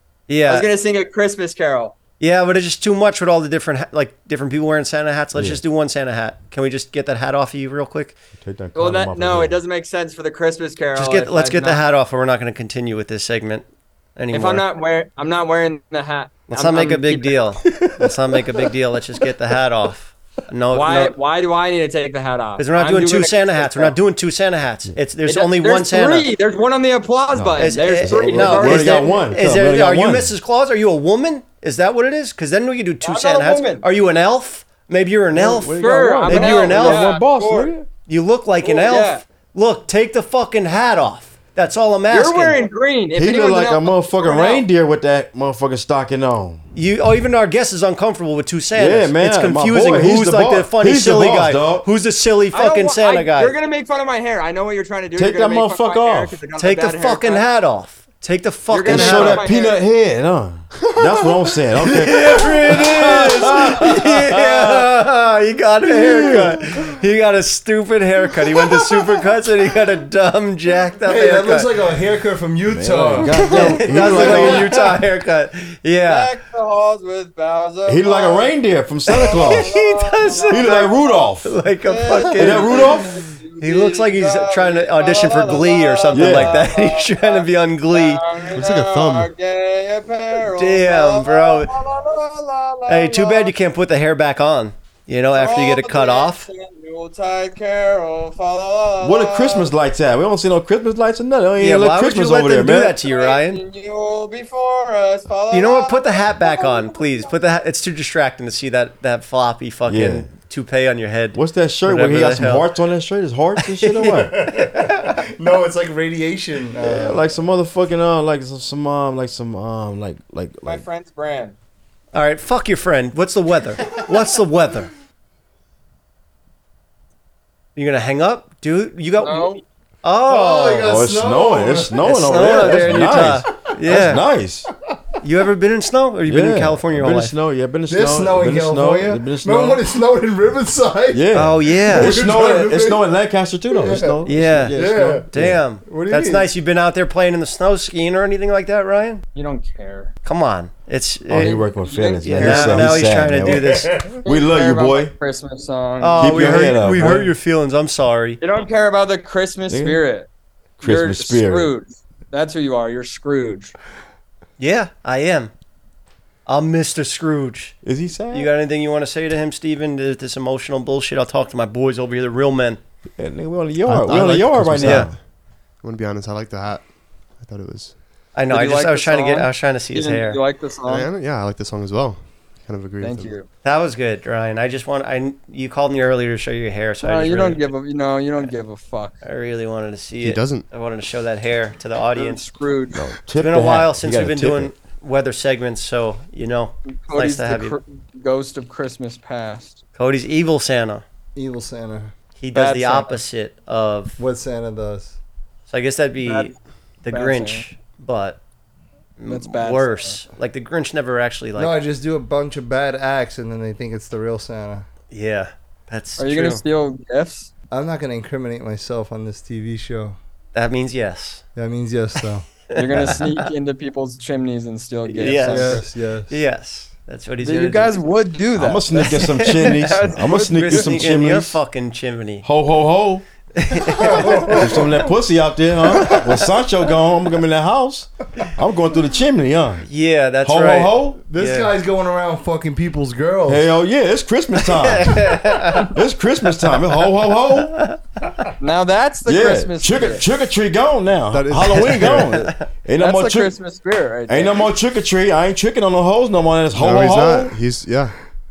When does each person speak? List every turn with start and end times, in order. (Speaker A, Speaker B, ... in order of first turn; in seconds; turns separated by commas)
Speaker A: 0.3-0.7, Speaker B: 0.5-2.0, Speaker A: 2.2-8.2, Speaker C: 5.3-5.6, Speaker C: 8.4-9.6, Speaker B: 8.8-11.8, Speaker A: 10.9-14.7, Speaker B: 14.3-17.6, Speaker A: 16.5-21.2, Speaker B: 20.7-24.0, Speaker A: 22.6-26.3, Speaker B: 25.2-29.5, Speaker C: 27.3-30.3, Speaker A: 27.6-37.1, Speaker B: 33.0-33.9, Speaker C: 35.3-37.9, Speaker B: 35.6-37.8, Speaker A: 38.1-42.7, Speaker B: 38.6-39.2, Speaker B: 42.1-44.7, Speaker C: 43.1-46.6, Speaker A: 46.7-53.6, Speaker C: 48.8-51.9, Speaker B: 52.5-57.5, Speaker C: 55.1-56.4, Speaker A: 56.6-59.5, Speaker B: 58.7-59.8, Speaker C: 58.9-64.8, Speaker D: 60.9-61.2, Speaker A: 61.9-71.7, Speaker C: 65.9-66.6, Speaker E: 71.0-74.7, Speaker C: 72.7-74.7, Speaker A: 73.4-76.4, Speaker B: 74.1-74.3, Speaker B: 76.1-78.6, Speaker C: 77.9-79.7, Speaker A: 79.1-88.2, Speaker B: 79.2-81.3, Speaker C: 80.5-81.6, Speaker B: 81.8-93.5, Speaker C: 82.4-83.2, Speaker C: 86.1-86.7, Speaker D: 88.5-89.3, Speaker A: 90.4-91.7, Speaker A: 92.9-96.5, Speaker B: 95.3-99.7, Speaker C: 99.0-103.0, Speaker A: 101.6-103.6, Speaker B: 103.0-107.3, Speaker A: 105.5-112.7, Speaker C: 109.9-110.3, Speaker C: 111.3-114.4, Speaker A: 113.6-115.2, Speaker E: 114.2-117.2, Speaker C: 116.8-120.8, Speaker B: 120.6-121.6, Speaker A: 122.1-124.9, Speaker A: 127.8-131.0, Speaker B: 129.2-129.6, Speaker E: 130.3-133.0, Speaker C: 130.8-134.7, Speaker A: 132.0-134.2, Speaker A: 135.2-137.3, Speaker C: 136.3-139.8, Speaker E: 137.9-143.1, Speaker C: 141.1-145.6, Speaker A: 141.3-142.2, Speaker E: 143.7-144.2, Speaker A: 144.3-149.2, Speaker E: 144.7-145.3, Speaker E: 145.8-146.5, Speaker B: 149.3-150.1, Speaker A: 150.2-151.7, Speaker C: 151.3-155.1, Speaker B: 151.7-153.2, Speaker A: 152.2-154.0, Speaker E: 153.5-154.2, Speaker B: 154.2-157.3, Speaker A: 156.0-158.4, Speaker C: 156.2-157.3, Speaker B: 158.4-160.3, Speaker C: 159.7-160.0, Speaker C: 160.8-161.7, Speaker B: 160.8-163.7, Speaker A: 164.6-165.5, Speaker A: 166.5-167.8, Speaker C: 167.8-168.5, Speaker A: 168.3-172.8, Speaker C: 173.2-175.2, Speaker D: 173.8-175.2, Speaker A: 174.8-175.1, Speaker D: 175.8-176.9, Speaker D: 177.4-178.0, Speaker A: 178.3-180.4, Speaker B: 178.5-181.1, Speaker D: 180.9-183.4, Speaker B: 183.0-183.5, Speaker A: 183.6-187.7, Speaker B: 187.0-189.2, Speaker A: 189.2-192.4, Speaker D: 190.2-190.7, Speaker B: 192.2-193.0, Speaker C: 192.9-194.7, Speaker A: 193.4-197.8, Speaker B: 196.9-199.8, Speaker A: 200.0-201.0, Speaker E: 201.3-202.1, Speaker A: 202.4-204.2, Speaker B: 202.6-203.2, Speaker E: 204.2-205.2, Speaker A: 205.7-208.4, Speaker B: 206.2-206.6, Speaker B: 207.1-207.7, Speaker A: 209.2-211.8, Speaker B: 209.3-210.2, Speaker E: 211.6-214.9, Speaker A: 215.1-216.6, Speaker B: 216.2-217.5, Speaker E: 217.7-220.2, Speaker A: 220.5-221.4, Speaker E: 221.6-222.4, Speaker A: 222.7-223.4, Speaker B: 222.8-225.9, Speaker A: 225.1-228.0, Speaker E: 225.5-226.3, Speaker B: 227.4-231.2, Speaker C: 228.6-231.6, Speaker A: 228.9-232.5, Speaker C: 232.4-233.2, Speaker A: 233.6-234.8, Speaker E: 233.9-235.1, Speaker C: 234.4-239.9, Speaker A: 236.0-236.5, Speaker A: 239.9-241.7, Speaker C: 240.4-241.2, Speaker E: 241.2-243.7, Speaker C: 243.5-247.8, Speaker A: 244.6-245.9, Speaker B: 248.6-250.3, Speaker C: 249.2-253.6, Speaker D: 251.3-252.4, Speaker A: 251.9-252.7, Speaker B: 252.9-254.7, Speaker C: 254.3-257.6, Speaker D: 256.8-258.1